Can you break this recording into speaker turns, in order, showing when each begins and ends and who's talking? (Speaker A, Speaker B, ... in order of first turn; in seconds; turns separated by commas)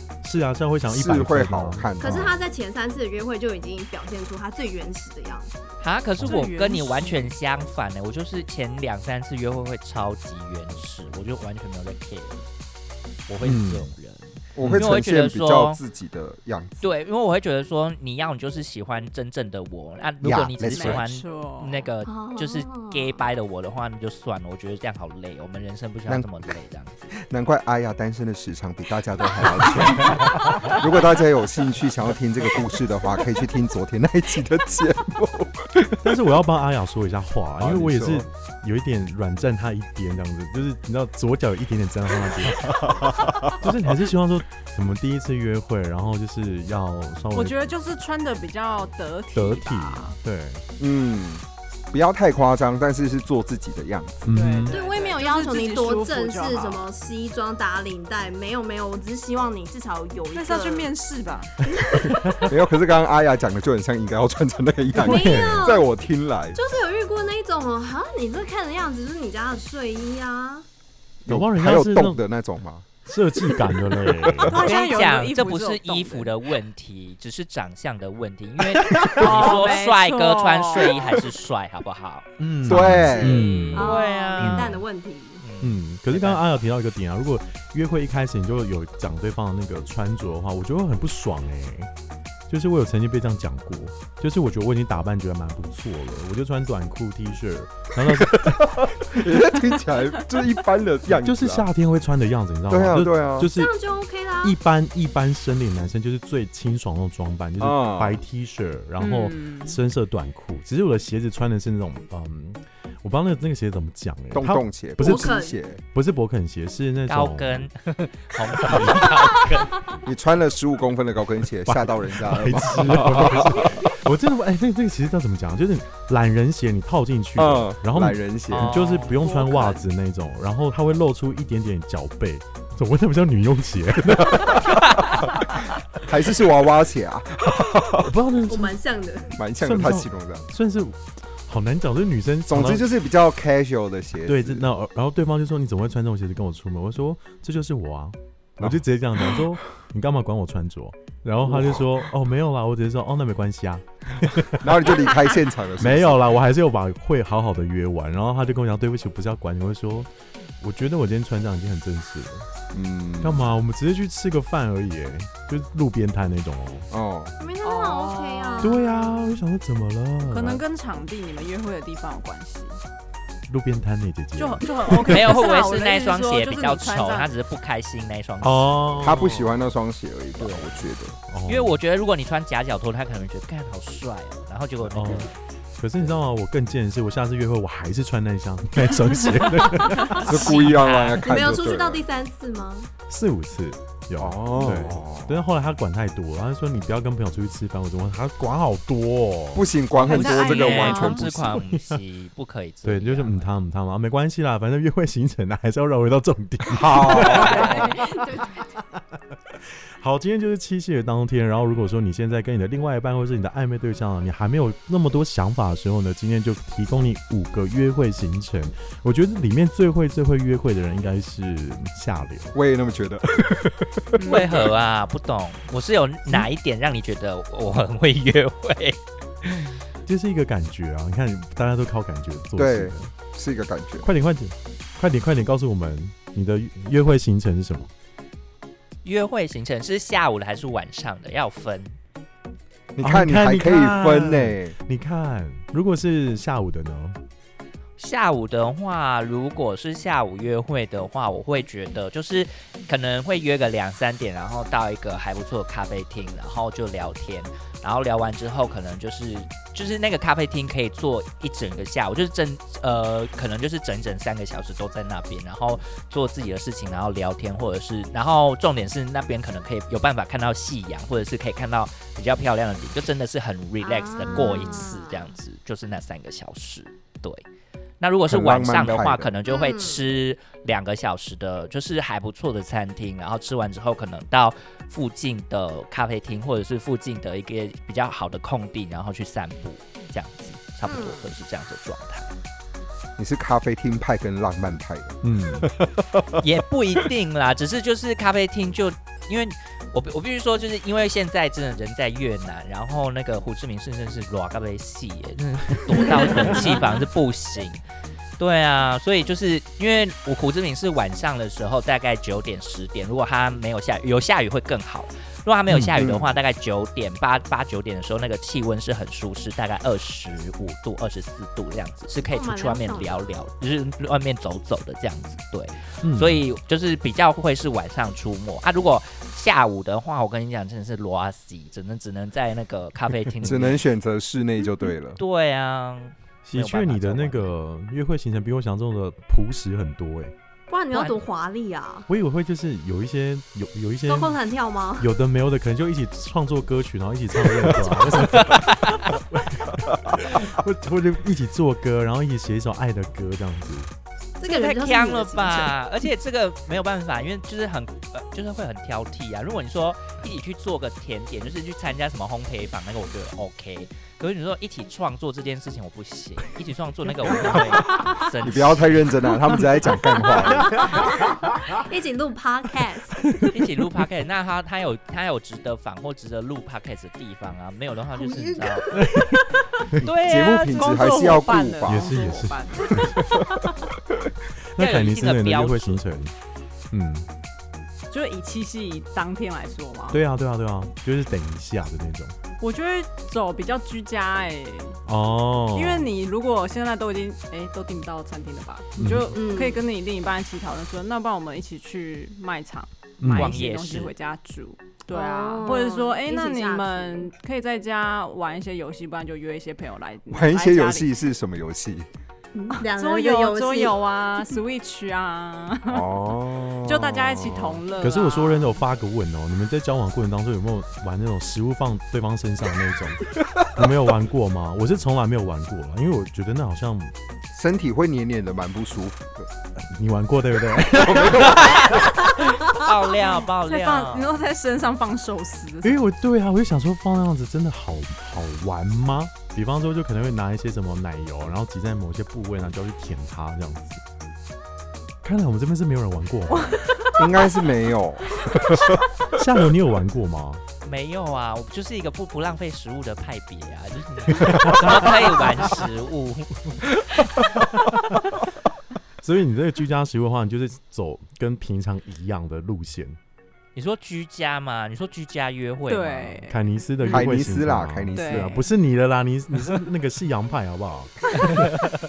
Speaker A: 0.2-2.4, Speaker B: 0.9-2.3, Speaker C: 2.0-5.5, Speaker D: 5.8-12.4, Speaker E: 6.2-7.3, Speaker D: 13.3-15.8, Speaker A: 13.4-13.9, Speaker B: 14.5-16.9, Speaker A: 14.6-14.9, Speaker D: 16.8-27.1, Speaker B: 20.2-21.0, Speaker E: 20.7-21.9, Speaker C: 22.1-23.2, Speaker B: 26.1-26.3, Speaker B: 27.2-36.0, Speaker A: 30.1-30.7, Speaker A: 36.0-47.7, Speaker B: 37.6-38.3, Speaker E: 47.3-50.1, Speaker A: 49.3-50.6, Speaker B: 50.8-54.2, Speaker A: 54.2-54.8, Speaker E: 54.3-56.9, Speaker C: 54.7-60.9, Speaker E: 60.3-61.6, Speaker C: 61.7-62.5, Speaker A: 62.2-62.5, Speaker B: 62.4-66.6, Speaker A: 64.9-65.7, Speaker C: 65.0-65.8, Speaker C: 66.5-70.6, Speaker A: 71.2-72.2, Speaker B: 71.3-72.9, Speaker A: 73.0-74.6, Speaker E: 74.4-76.3, Speaker D: 74.5-82.3, Speaker A: 78.7-79.4, Speaker E: 79.1-81.1, Speaker A: 82.4-84.8, Speaker B: 82.6-83.6, Speaker C: 83.2-85.4, Speaker D: 83.7-84.8, Speaker D: 85.4-86.6, Speaker A: 85.6-91.9, Speaker A: 92.5-99.4, Speaker B: 98.1-101.7, Speaker A: 101.2-103.7, Speaker B: 102.7-103.5, Speaker C: 103.5-104.6, Speaker A: 104.4-117.7, Speaker B: 107.6-108.2, Speaker E: 109.0-109.8, Speaker B: 114.3-115.8, Speaker C: 115.0-115.5, Speaker D: 117.1-120.0, Speaker A: 118.7-119.0, Speaker C: 119.2-119.6, Speaker B: 120.0-123.8, Speaker A: 121.7-134.8, Speaker B: 127.4-128.8, Speaker D: 128.5-129.7, Speaker B: 134.2-134.6, Speaker D: 134.7-135.2, Speaker B: 135.9-138.1, Speaker A: 138.0-138.8, Speaker C: 138.5-139.4, Speaker B: 139.3-140.5, Speaker A: 139.6-142.9, Speaker B: 142.5-144.6, Speaker A: 144.2-154.9, Speaker B: 151.4-151.9, Speaker B: 154.5-156.3, Speaker A: 155.8-162.5, Speaker B: 162.7-163.5, Speaker A: 163.2-166.9, Speaker B: 166.9-167.3, Speaker C: 167.4-169.1, Speaker E: 167.6-169.3, Speaker A: 168.6-170.6, Speaker E: 170.3-172.8, Speaker A: 173.5-175.3, Speaker E: 174.3-177.3, Speaker D: 175.1-179.3, Speaker A: 178.4-179.6, Speaker B: 179.0-181.2, Speaker D: 180.4-180.9, Speaker A: 181.3-181.8, Speaker D: 181.4-185.4, Speaker A: 184.9-190.5, Speaker D: 190.1-191.2, Speaker B: 190.2-192.0, Speaker C: 191.2-192.9, Speaker A: 193.1-199.7, Speaker B: 194.2-195.4, Speaker B: 199.5-201.6, Speaker D: 200.0-203.5, Speaker E: 200.0-201.2, Speaker A: 200.8-202.0, Speaker A: 202.8-222.5, Speaker B: 206.7-207.8, Speaker C: 207.2-208.7, Speaker E: 207.5-207.8, Speaker B: 222.5-224.1, Speaker E: 224.2-224.7, Speaker D: 224.2-229.7, Speaker A: 230.1-233.1, Speaker B: 232.6-234.1, Speaker A: 234.0-237.9, Speaker D: 239.0-242.0, Speaker B: 242.9-244.7, Speaker A: 243.0-247.2, Speaker D: 248.0-277.4, Speaker C: 273.8-275.3, Speaker D: 278.0-292.3, Speaker B: 278.3-279.3, Speaker C: 279.4-280.0, Speaker C: 290.8-291.3, Speaker B: 293.2-295.9, Speaker A: 295.2-295.7, Speaker D: 296.4-307.8, Speaker D: 308.4-333.9, Speaker A: 315.7-316.0, Speaker B: 315.9-316.3, Speaker C: 322.2-323.3, Speaker A: 326.0-326.4, Speaker B: 333.4-335.2, Speaker D: 335.1-337.5, Speaker A: 336.4-340.3, Speaker C: 340.7-342.1, Speaker D: 340.9-341.2, Speaker A: 342.1-344.4, Speaker C: 344.1-345.1, Speaker A: 345.0-353.9, Speaker D: 348.4-349.1, Speaker C: 354.4-355.7, Speaker D: 354.4-369.3, Speaker C: 367.9-368.2, Speaker B: 368.4-371.1, Speaker C: 370.2-373.5, Speaker D: 373.5-379.1, Speaker C: 378.2-379.4, Speaker A: 378.9-380.1, Speaker B: 380.0-382.1, Speaker D: 380.0-380.6, Speaker E: 380.1-383.2, Speaker A: 381.9-383.2, Speaker A: 384.7-386.3, Speaker D: 384.8-386.0, Speaker A: 386.9-387.3, Speaker E: 388.1-390.2, Speaker A: 390.1-392.3, Speaker E: 392.6-395.0, Speaker A: 395.1-396.1, Speaker E: 395.7-411.1, Speaker A: 399.0-399.4, Speaker C: 399.3-399.8, Speaker A: 403.2-403.6, Speaker D: 403.3-404.1, Speaker C: 405.1-407.3, Speaker B: 410.3-412.1, Speaker C: 412.5-413.9, Speaker E: 412.7-418.8, Speaker B: 415.9-417.8, Speaker A: 418.0-427.1, Speaker B: 427.5-429.5, Speaker A: 429.8-432.0, Speaker B: 430.8-432.1, Speaker D: 431.4-434.3, Speaker E: 433.5-436.0, Speaker A: 435.8-444.0, Speaker A: 445.2-447.0, Speaker E: 446.6-447.1, Speaker B: 447.2-448.9, Speaker A: 449.3-450.6, Speaker D: 450.8-457.2, Speaker A: 454.3-455.6, Speaker A: 457.4-458.3, Speaker A: 459.2-463.2, Speaker D: 463.7-466.5, Speaker E: 465.9-466.6, Speaker A: 466.5-471.9, Speaker B: 467.0-468.5, Speaker E: 468.1-468.7